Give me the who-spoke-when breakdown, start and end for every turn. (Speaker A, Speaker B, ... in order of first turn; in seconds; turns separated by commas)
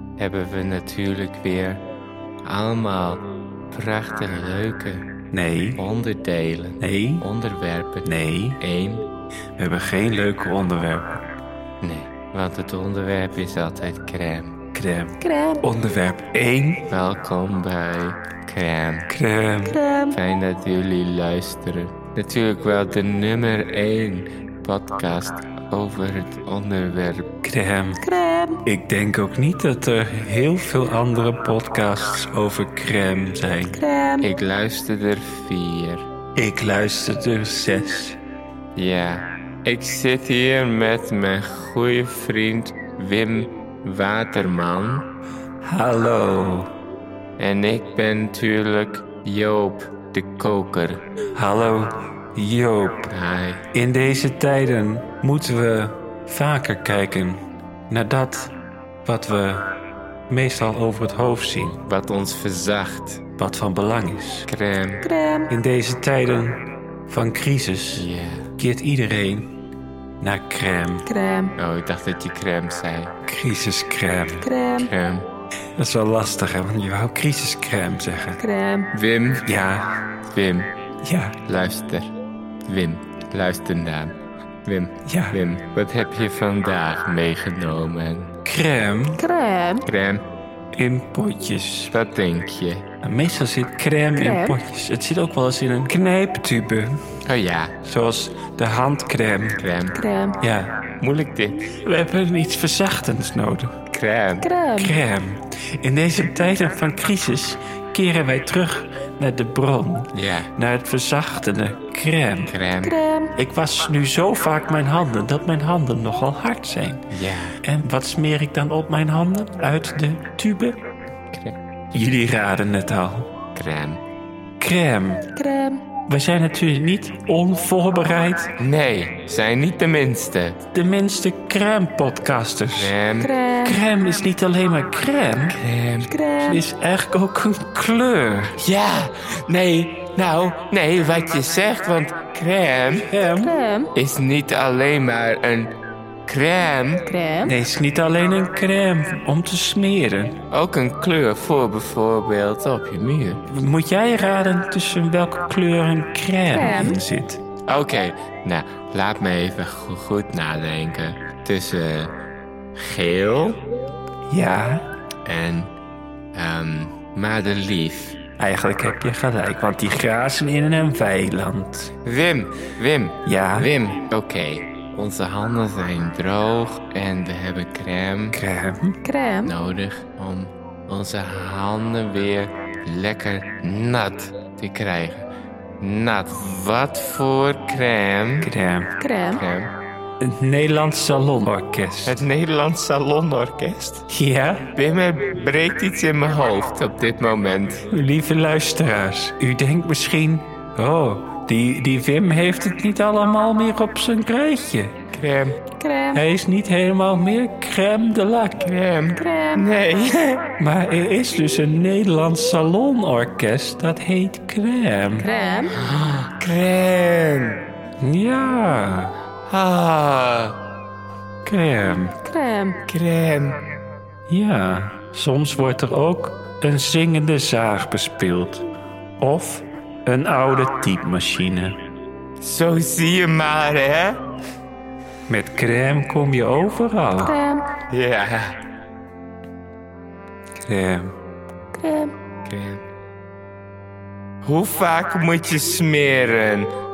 Speaker A: 0.2-1.8, Speaker A: 2.5-5.1, Speaker B: 5.3-5.8, Speaker A: 5.8-9.1, Speaker B: 6.8-7.3, Speaker B: 8.0-8.6, Speaker B: 9.6-11.2, Speaker A: 11.8-14.6, Speaker B: 14.7-16.9, Speaker C: 15.2-15.6, Speaker A: 16.9-19.1, Speaker B: 19.1-19.8, Speaker C: 19.7-20.2, Speaker A: 20.1-27.3, Speaker B: 27.4-28.1, Speaker C: 28.0-28.6, Speaker B: 28.6-33.8, Speaker C: 33.8-34.2, Speaker A: 34.2-36.1, Speaker B: 36.4-38.2, Speaker A: 38.8-45.1, Speaker B: 45.6-46.7, Speaker A: 47.4-51.0, Speaker B: 51.4-53.1, Speaker A: 53.1-53.6, Speaker B: 53.7-59.7, Speaker B: 60.3-61.8, Speaker A: 61.7-63.2, Speaker B: 63.4-64.5, Speaker A: 64.5-65.1, Speaker C: 65.0-65.5, Speaker B: 65.5-68.1, Speaker A: 68.0-68.5, Speaker B: 68.6-69.5, Speaker B: 70.2-71.1, Speaker C: 71.1-71.5, Speaker A: 71.6-73.1, Speaker B: 73.3-74.5, Speaker C: 74.4-74.9, Speaker A: 74.7-75.3, Speaker B: 75.8-78.4, Speaker C: 78.4-78.9, Speaker A: 78.9-79.5, Speaker B: 79.5-80.0, Speaker A: 80.3-80.7, Speaker B: 81.0-81.4, Speaker A: 81.4-82.1, Speaker A: 82.7-88.3, Speaker B: 85.0-85.4, Speaker B: 88.5-89.2, Speaker C: 89.2-89.8, Speaker A: 89.8-90.2, Speaker B: 90.7-91.9, Speaker A: 91.9-92.8, Speaker B: 93.0-97.0, Speaker C: 94.2-94.6, Speaker A: 97.2-97.8, Speaker B: 97.8-99.6, Speaker A: 99.6-100.0, Speaker C: 100.0-100.4, Speaker B: 100.4-100.8, Speaker A: 101.0-101.8, Speaker B: 101.8-103.7, Speaker A: 103.9-104.5, Speaker C: 104.4-105.0, Speaker B: 104.8-112.5, Speaker A: 110.1-110.5, Speaker A: 112.4-113.0, Speaker C: 112.8-113.3, Speaker B: 113.4-117.1, Speaker A: 117.1-117.6, Speaker B: 117.6-120.8, Speaker B: 121.9-123.3, Speaker A: 123.5-124.0, Speaker B: 124.6-125.3, Speaker C: 125.4-125.8, Speaker B: 126.1-128.5, Speaker A: 128.6-130.6, Speaker B: 130.7-132.9, Speaker A: 132.8-133.3, Speaker C: 133.2-133.7, Speaker B: 133.6-135.6, Speaker A: 135.5-136.1, Speaker C: 136.1-136.6, Speaker B: 136.4-138.6, Speaker A: 138.6-143.1, Speaker B: 143.1-143.6, Speaker C: 143.4-143.9, Speaker A: 143.9-145.7, Speaker A: 146.3-147.1, Speaker C: 147.1-147.6, Speaker B: 147.4-150.4, Speaker A: 150.5-153.4, Speaker B: 153.5-157.4, Speaker C: 156.5-157.0, Speaker A: 157.7-162.1, Speaker A: 162.8-163.6, Speaker B: 164.3-164.8, Speaker A: 165.2-165.7, Speaker A: 166.3-168.2, Speaker B: 168.4-171.9, Speaker A: 172.0-178.4, Speaker B: 173.3-173.7, Speaker B: 178.3-179.0, Speaker C: 179.0-179.5, Speaker A: 179.4-185.3, Speaker A: 185.8-188.5, Speaker B: 188.4-188.9, Speaker C: 189.0-189.4, Speaker A: 189.3-189.7, Speaker B: 190.2-192.2, Speaker A: 192.1-194.1, Speaker B: 194.1-194.7, Speaker A: 194.7-197.9, Speaker B: 197.9-205.0, Speaker A: 205.1-205.6, Speaker C: 205.8-206.2, Speaker B: 206.1-208.7, Speaker A: 208.6-210.5, Speaker C: 209.2-209.6, Speaker B: 210.6-215.3, Speaker C: 215.2-215.7, Speaker A: 215.7-217.6, Speaker B: 218.0-219.1, Speaker A: 219.5-220.6, Speaker B: 221.4-222.2, Speaker C: 222.2-222.8, Speaker A: 222.8-223.6, Speaker B: 224.3-228.7, Speaker B: 229.2-231.8, Speaker A: 232.4-234.2, Speaker B: 235.3-237.4, Speaker C: 237.2-237.7, Speaker A: 237.9-238.6, Speaker B: 240.6-241.1, Speaker C: 241.8-242.1, Speaker A: 242.5-242.8, Speaker A: 244.4-246.7